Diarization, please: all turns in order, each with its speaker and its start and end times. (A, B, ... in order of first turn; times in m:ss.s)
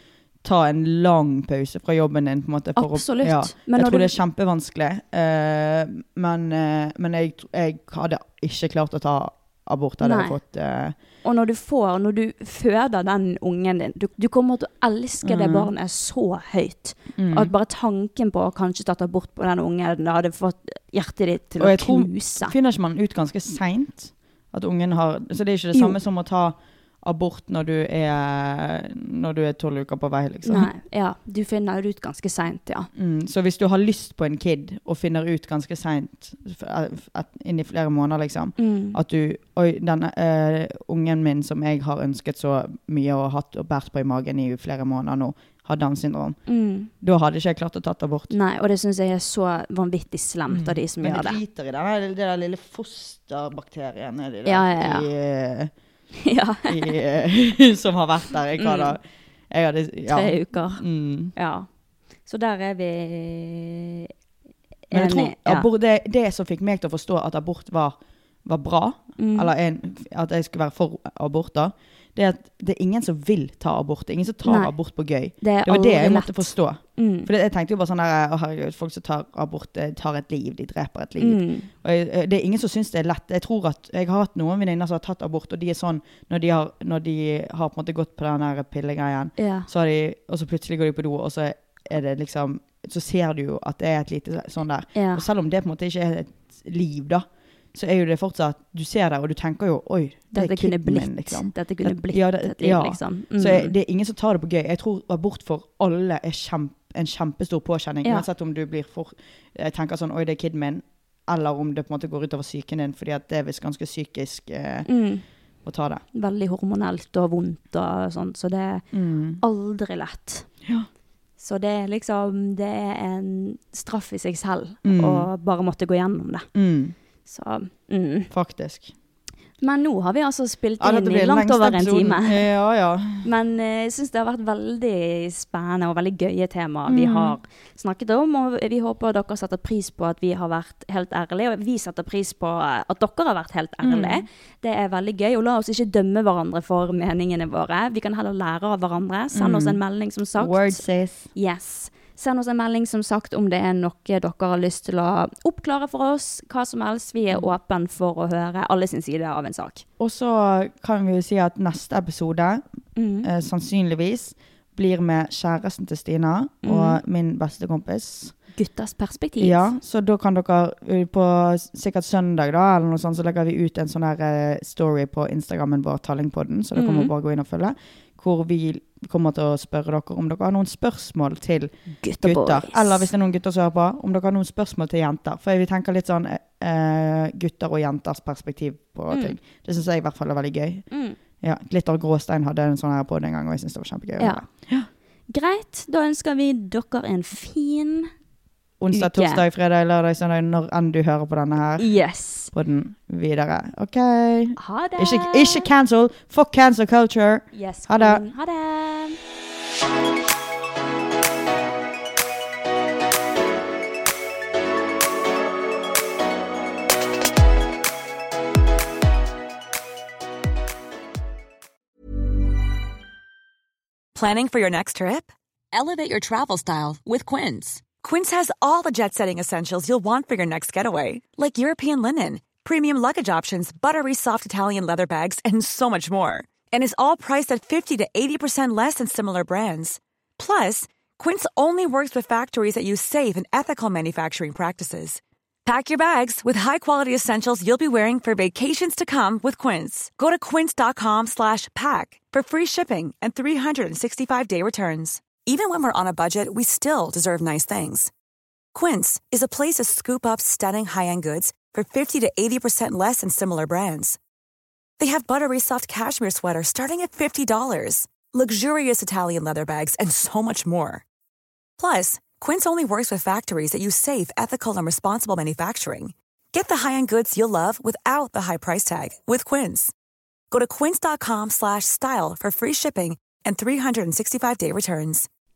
0:00.4-0:11.0 A
0:02.8-0:04.2 B
0:10.0-0:10.4 B
0:11.2-0:22.5 B
0:15.2-0:15.7 A
0:17.2-0:17.5 A
0:21.6-0:30.7 A
0:30.4-0:32.9 B
0:33.0-0:46.4 A
0:38.6-0:39.0 B
0:46.5-0:46.9 B
0:47.0-0:48.4 A
0:48.3-0:51.4 B
0:50.5-0:55.7 A
0:54.4-0:55.1 B
0:56.2-0:57.0 B
0:56.7-1:01.3 A
0:58.6-0:59.0 B
1:00.1-1:00.8 B
1:01.4-1:01.7 B
1:02.3-1:04.1 B
1:04.9-1:05.7 B
1:04.9-1:54.9 A
1:09.2-1:09.5 B
1:14.4-1:14.7 B
1:15.4-1:17.3 B
1:21.2-1:21.7 B
1:29.4-1:29.7 B
1:35.0-1:35.2 B
1:40.3-1:43.7 B
1:54.9-1:55.2 B
1:55.6-1:56.0 A
1:56.1-1:58.8 B
1:58.9-1:59.4 A
1:59.4-2:00.5 B
2:01.4-2:06.5 B
2:04.8-2:05.3 A
2:06.6-2:07.0 A
2:07.3-2:08.3 B
2:08.3-2:08.9 A
2:09.6-2:12.5 B
2:10.8-2:13.3 A
2:13.2-2:30.8 B
2:16.9-2:17.4 A
2:23.8-2:24.3 A
2:29.3-2:29.8 A
2:30.4-2:31.3 A
2:31.4-2:39.8 B
2:40.0-2:42.6 A
2:43.0-2:43.3 B
2:43.2-2:48.4 A
2:46.6-2:47.0 B
2:48.6-2:49.7 B
2:49.4-3:10.9 A
2:56.8-2:57.1 B
3:02.0-3:03.1 B
3:09.1-3:09.4 B
3:10.9-3:11.2 B
3:11.4-3:14.9 A
3:14.2-3:14.4 B
3:15.3-3:18.1 B
3:18.8-3:21.9 A
3:18.9-3:19.4 B
3:21.8-3:22.5 B
3:22.5-3:28.2 A
3:24.6-3:25.7 B
3:27.5-3:29.2 B
3:44.2-4:18.1 C
4:18.7-4:24.2 C
4:25.0-4:31.0 C
4:31.8-4:39.9 C
4:40.5-4:45.3 C